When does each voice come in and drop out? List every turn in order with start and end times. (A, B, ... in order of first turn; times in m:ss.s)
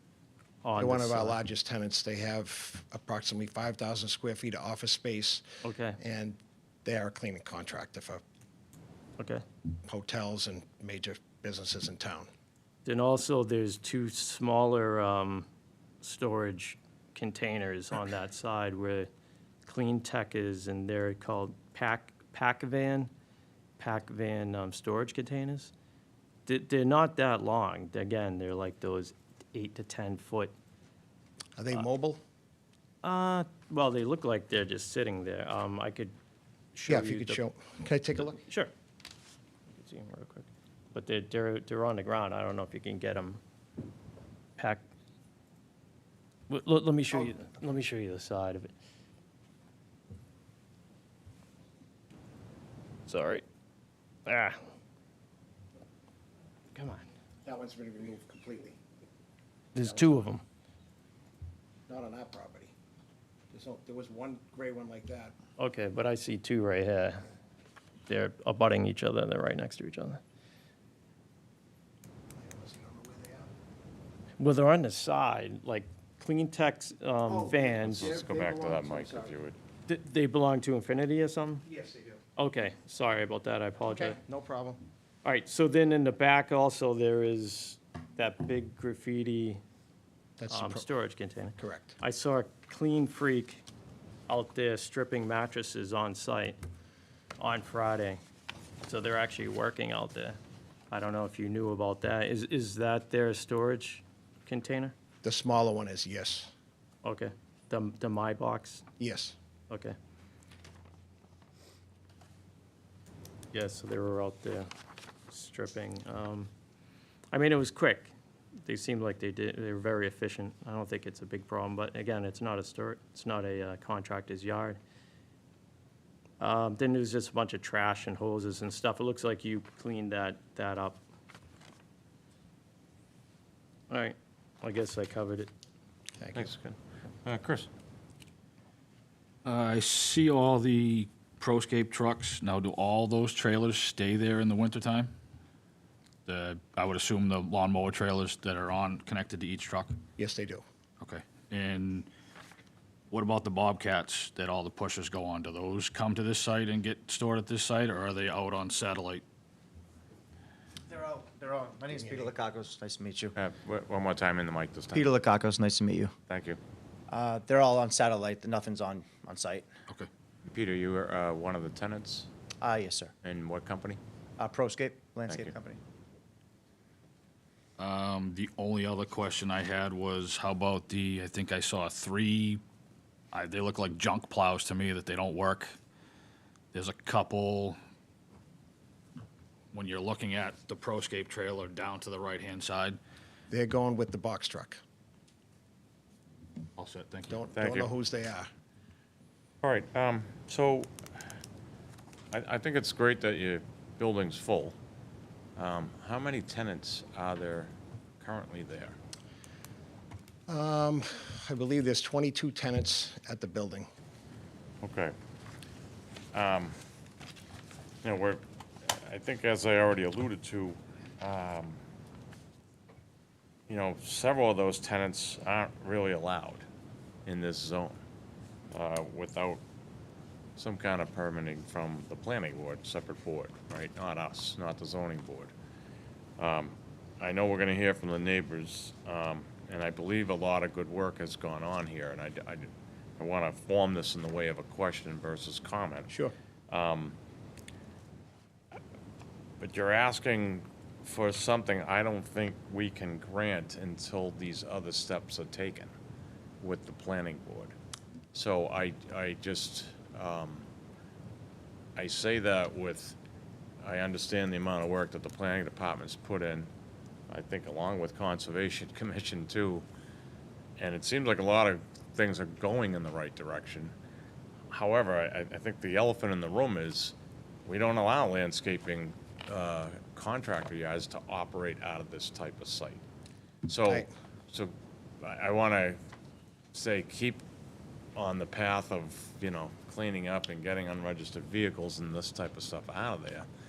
0:00.6-0:01.4 A
0:00.8-0:05.4 B
0:05.6-0:06.0 A
0:06.0-0:08.2 B
0:09.2-0:09.4 A
0:09.8-0:12.3 B
0:12.8-0:15.5 A
0:16.0-0:19.1 A
0:19.6-0:23.1 A
0:23.8-0:25.7 A
0:26.4-0:30.5 A
0:31.6-0:32.2 B
0:33.0-0:36.1 A
0:36.7-0:37.4 A
0:36.9-0:38.4 B
0:38.4-0:38.7 A
0:39.7-0:43.4 A
0:44.6-0:44.8 A
0:46.5-0:48.7 A
0:53.1-0:53.4 A
0:54.2-0:54.6 A
0:56.7-0:57.0 A
0:57.4-0:58.8 B
0:59.7-1:00.4 A
0:59.8-1:00.2 B
1:01.9-1:02.7 B
1:03.5-1:05.3 B
1:05.6-1:07.2 A
1:08.1-1:10.2 A
1:12.3-1:13.5 B
1:14.4-1:18.2 A
1:17.2-1:19.4 B
1:17.8-1:19.6 C
1:19.9-1:21.6 A
1:21.6-1:22.2 B
1:22.4-1:24.2 A
1:23.9-1:24.8 B
1:25.2-1:29.6 A
1:30.4-1:30.9 B
1:30.5-1:33.6 A
1:31.6-1:32.0 B
1:34.3-1:36.6 A
1:37.4-1:38.2 A
1:38.8-1:40.4 A
1:40.9-1:44.9 A
1:45.2-1:46.5 B
1:47.0-1:48.8 A
1:49.0-1:49.4 B
1:49.7-1:49.9 A
1:53.5-1:54.7 A
1:55.3-1:56.5 A
1:57.3-1:58.1 A
1:58.6-2:04.8 A
2:06.4-2:11.0 A
2:13.9-2:15.5 A
2:16.2-2:16.5 B
2:16.3-2:17.7 C
2:19.4-2:25.1 D
2:26.2-2:30.0 D
2:30.2-2:30.6 B
2:31.0-2:32.1 D
2:33.1-2:39.2 D
2:40.9-2:43.4 E
2:43.4-2:45.1 C
2:44.9-2:46.1 E
2:46.3-2:46.6 C
2:47.1-2:49.7 E
2:50.4-2:52.3 C
2:52.6-2:53.1 E
2:53.2-2:54.0 C
2:54.4-2:55.8 E
2:55.3-2:55.5 C
2:57.8-3:02.6 D
3:03.3-3:05.7 D
3:06.7-3:07.8 D
3:09.7-3:13.0 D
3:13.5-3:14.8 B
3:16.8-3:17.4 D
3:17.3-3:18.5 B
3:17.5-3:17.9 C
3:19.6-3:20.9 C
3:22.3-3:24.8 C
3:25.6-3:29.0 C
3:30.5-3:33.9 B
3:34.8-3:35.1 C
3:36.3-3:36.8 C
3:38.0-3:41.8 C
3:43.7-3:46.6 C
3:47.2-3:48.0 C
3:48.7-3:49.6 C
3:50.6-3:55.5 C
3:56.4-4:06.1 C
4:06.7-4:07.2 C
4:09.6-4:15.9 C
4:16.6-4:17.8 C
4:18.3-4:20.7 C
4:22.0-4:23.2 C
4:23.8-4:26.7 C
4:27.3-4:29.8 C
4:30.8-4:33.9 C
4:34.7-4:37.1 C
4:37.6-4:43.0 C
4:43.7-4:46.0 C
4:46.7-4:47.4 C
4:48.1-4:53.5 C